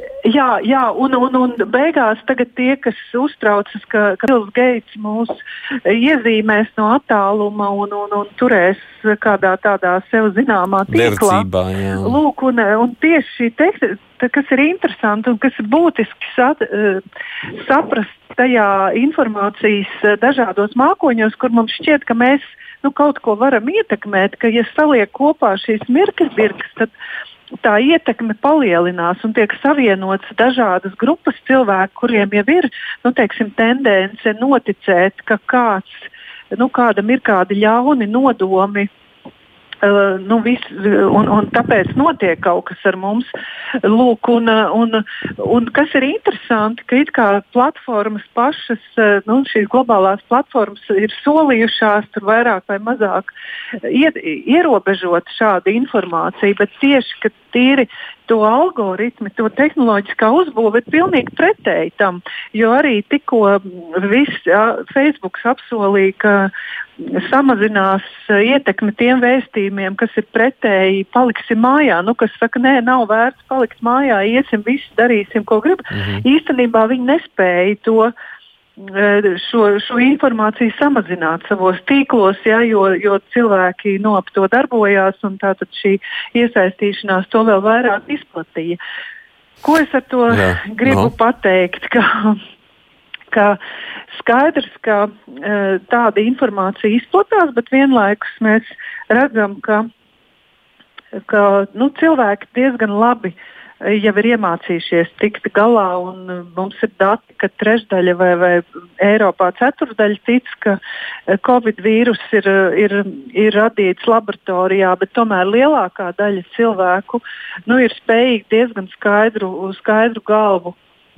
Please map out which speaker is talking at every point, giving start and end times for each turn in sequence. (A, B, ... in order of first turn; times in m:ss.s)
0:00.3-0:11.5 A
0:10.9-0:12.2 B
0:12.0-0:17.0 A
0:17.6-0:26.9 A
0:27.6-0:38.9 A
0:39.8-0:43.3 A
0:43.8-0:53.3 A
0:53.8-1:18.1 A
1:15.9-1:16.2 B
1:18.8-1:28.8 A
1:29.6-1:32.4 A
1:30.3-1:31.1 B
1:33.3-1:33.6 A
1:34.1-1:39.9 A
1:41.3-1:50.8 A
1:51.3-2:00.8 A